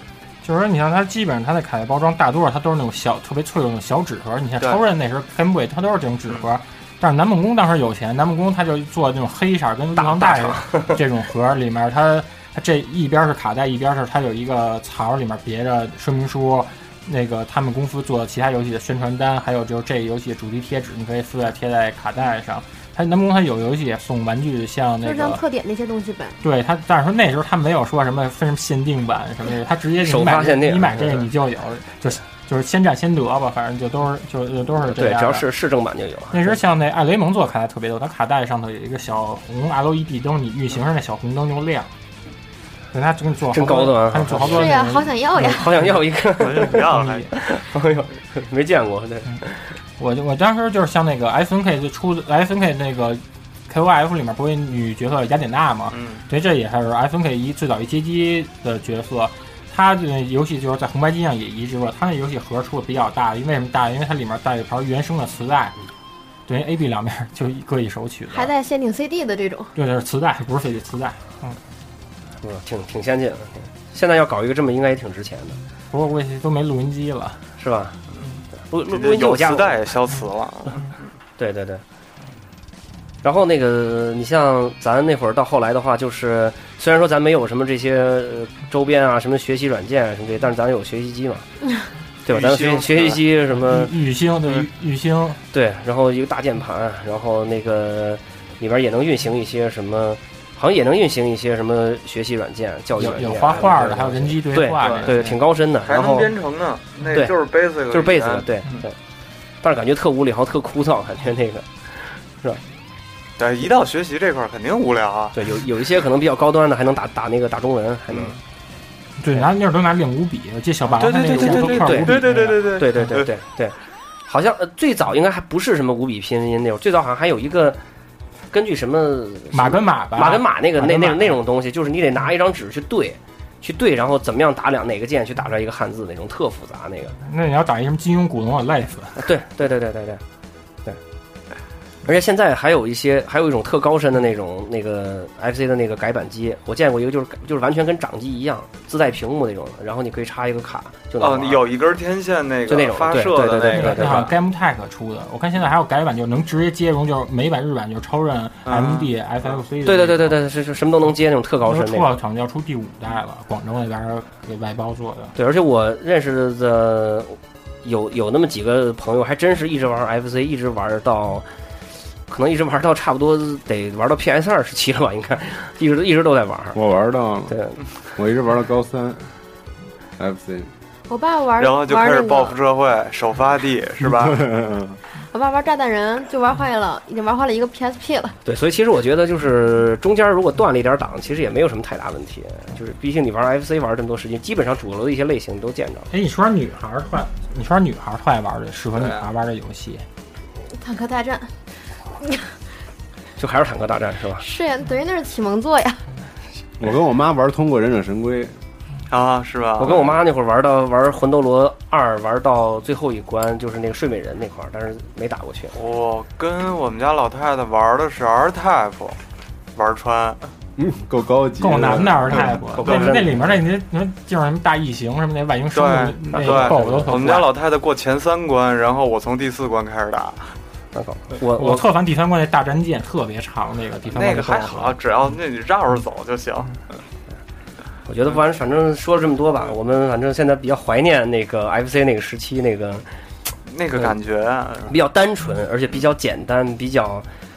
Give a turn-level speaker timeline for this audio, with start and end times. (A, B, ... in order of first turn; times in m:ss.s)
0:00.4-0:25.4 A
0:10.0-0:11.0 B
0:25.0-0:26.4 C
0:26.4-0:35.5 A
0:30.0-0:31.2 B
0:34.8-0:36.6 B
0:36.3-0:41.9 A
0:42.9-0:45.9 A
0:43.5-0:44.7 B
0:44.4-0:45.6 C
0:45.4-0:49.7 B
0:46.4-0:47.3 D
0:46.6-0:47.3 A
0:50.0-1:05.7 A
0:55.9-0:56.2 D
1:06.5-1:08.5 A
1:08.3-1:09.7 C
1:09.7-1:11.6 A
1:12.4-1:15.6 B
1:15.9-1:17.4 A
1:17.6-1:18.0 B
1:18.7-1:19.9 B
1:18.9-1:20.9 D
1:21.4-1:21.8 B
1:23.2-1:31.4 B
1:32.2-1:33.2 D
1:32.2-1:33.9 B
1:33.5-1:35.4 A
1:35.5-1:46.3 B
1:42.9-1:45.4 A
1:44.8-1:45.3 D
1:45.8-1:48.9 D
1:47.9-1:48.9 B
1:49.6-1:52.6 B
1:53.4-1:55.4 D
1:55.3-1:58.4 B
1:58.1-1:58.4 D
1:59.2-2:03.0 A
2:00.9-2:03.3 D
2:01.1-2:07.8 B
2:08.5-2:17.2 B
2:09.5-2:11.4 A
2:17.2-2:19.2 A
2:19.2-2:20.2 B
2:22.0-2:31.6 B
2:31.2-2:34.3 D
2:32.7-2:34.3 B
2:33.7-2:40.4 A
2:38.6-2:39.1 D
2:39.8-2:42.1 B
2:41.6-2:45.3 A
2:45.3-2:51.5 B
2:52.3-2:56.8 B
2:56.7-2:57.5 E
2:57.5-2:57.8 B
2:58.2-2:59.3 E
3:00.2-3:00.7 E
3:01.1-3:02.6 C
3:01.6-3:04.4 D
3:04.0-3:05.0 E
3:05.3-3:08.4 C
3:08.4-3:16.1 B
3:16.1-3:20.0 A
3:20.7-3:21.5 C
3:22.2-3:22.5 C
3:23.4-3:24.4 B
3:24.4-3:26.0 C
3:26.8-3:28.5 E
3:29.1-3:30.0 D
3:29.8-3:35.7 B
3:35.7-3:39.2 D
3:39.7-3:40.4 D
3:40.8-3:42.4 E
3:41.6-3:47.5 A
3:42.4-3:43.6 B
3:42.8-3:43.2 D
3:45.7-3:50.6 D
3:46.4-3:47.2 B
3:50.9-3:51.9 B
3:51.6-3:55.0 A
3:54.1-3:56.8 D
3:58.0-4:03.0 B
4:03.7-4:04.9 D
4:04.9-4:07.3 B